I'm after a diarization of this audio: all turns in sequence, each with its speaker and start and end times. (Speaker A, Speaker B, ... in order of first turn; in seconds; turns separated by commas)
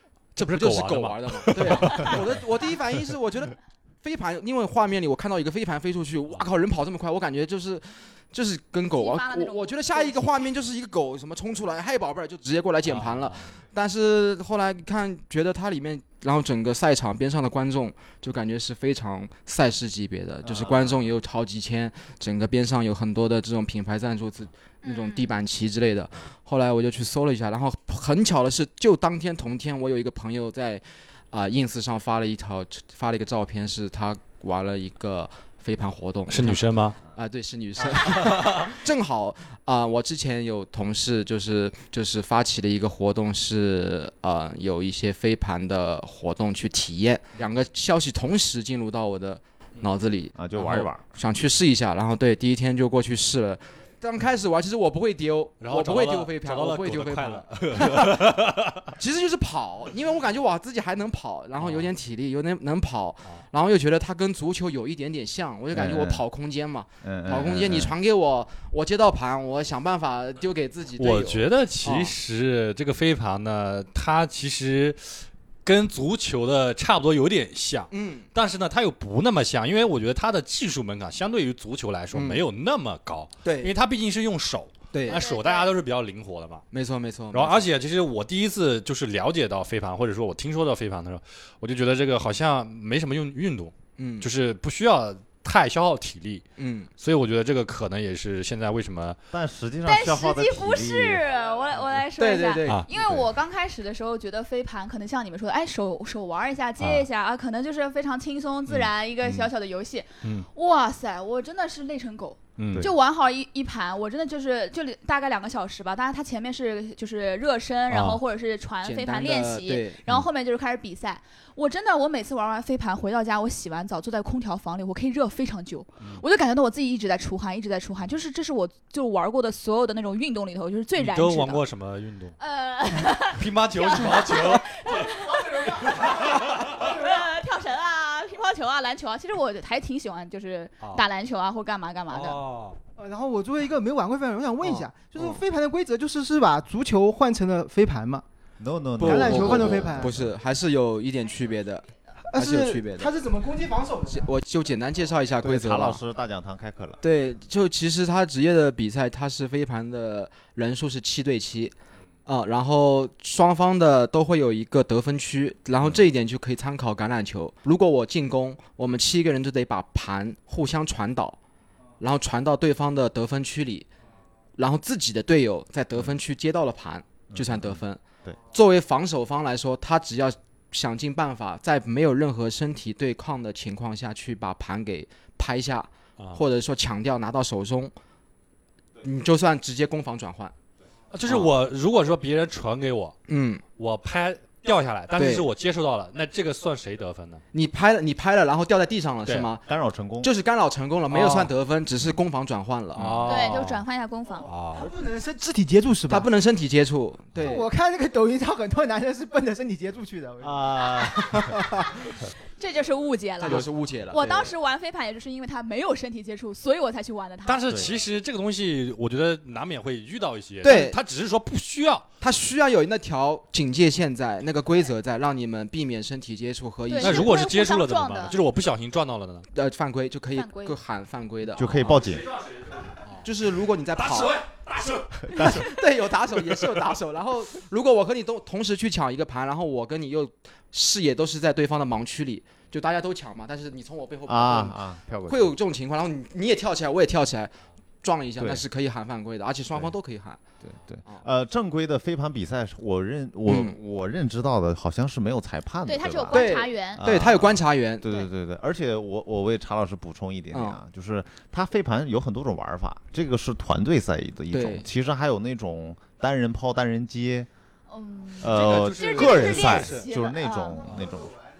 Speaker A: 0.3-2.4, Speaker B: 0.3-58.3, Speaker C: 8.9-10.5, Speaker A: 12.8-13.5, Speaker D: 20.4-21.0, Speaker C: 24.8-25.3, Speaker A: 36.3-37.0, Speaker A: 38.1-38.7, Speaker D: 50.4-51.0, Speaker A: 55.6-58.9, Speaker B: 59.0-72.1, Speaker A: 61.6-61.9, Speaker D: 65.7-66.2, Speaker D: 67.0-67.9, Speaker A: 71.0-86.6, Speaker B: 77.9-78.3, Speaker B: 82.1-82.4, Speaker B: 83.4-83.7, Speaker B: 84.9-85.2, Speaker C: 85.1-85.8, Speaker B: 86.7-87.7, Speaker A: 87.3-96.5, Speaker B: 94.0-94.3, Speaker B: 96.6-96.9, Speaker A: 97.0-99.2, Speaker D: 99.3-101.2, Speaker C: 99.8-131.6, Speaker B: 102.2-102.9, Speaker A: 106.8-107.1, Speaker A: 108.7-109.5, Speaker A: 110.2-110.5, Speaker A: 112.6-112.9, Speaker A: 117.9-118.2, Speaker B: 118.8-120.0, Speaker A: 131.0-132.4, Speaker C: 132.4-142.4, Speaker A: 133.3-136.9, Speaker A: 140.8-141.1, Speaker A: 142.1-142.8, Speaker E: 143.0-148.2, Speaker B: 144.6-145.4, Speaker D: 148.6-150.3, Speaker E: 149.0-150.1, Speaker B: 149.0-153.1, Speaker E: 152.3-154.3, Speaker B: 154.1-156.0, Speaker D: 155.4-157.0, Speaker B: 157.0-161.7, Speaker B: 162.2-171.4, Speaker B: 172.0-173.9, Speaker B: 174.6-187.9, Speaker D: 177.3-178.3, Speaker A: 186.2-186.4, Speaker B: 189.0-190.5, Speaker A: 191.1-193.2, Speaker B: 191.2-191.5, Speaker B: 193.3-193.6, Speaker A: 193.8-197.4, Speaker B: 195.2-195.5, Speaker B: 197.5-203.5, Speaker D: 199.7-200.3, Speaker A: 201.1-201.5, Speaker A: 202.9-203.8, Speaker C: 203.2-204.5, Speaker A: 204.4-204.9, Speaker E: 204.7-206.3, Speaker B: 206.1-207.7, Speaker E: 207.4-212.0, Speaker D: 210.4-211.5, Speaker C: 212.6-217.7, Speaker B: 213.4-214.5, Speaker A: 217.4-222.1, Speaker D: 217.7-217.9, Speaker B: 220.6-221.0, Speaker B: 222.2-227.3, Speaker C: 226.9-228.4, Speaker A: 227.0-229.5, Speaker B: 229.5-232.1, Speaker C: 230.3-230.8, Speaker D: 231.6-232.3, Speaker A: 231.6-233.3, Speaker B: 233.2-234.4, Speaker A: 233.9-235.6, Speaker B: 235.3-250.4, Speaker D: 244.2-245.5, Speaker D: 248.4-248.6, Speaker D: 250.6-267.5, Speaker B: 253.5-253.8, Speaker C: 255.8-257.0, Speaker B: 256.3-258.2, Speaker B: 260.5-260.8, Speaker B: 264.5-264.9, Speaker C: 267.9-270.8, Speaker D: 268.4-271.3, Speaker A: 268.4-270.1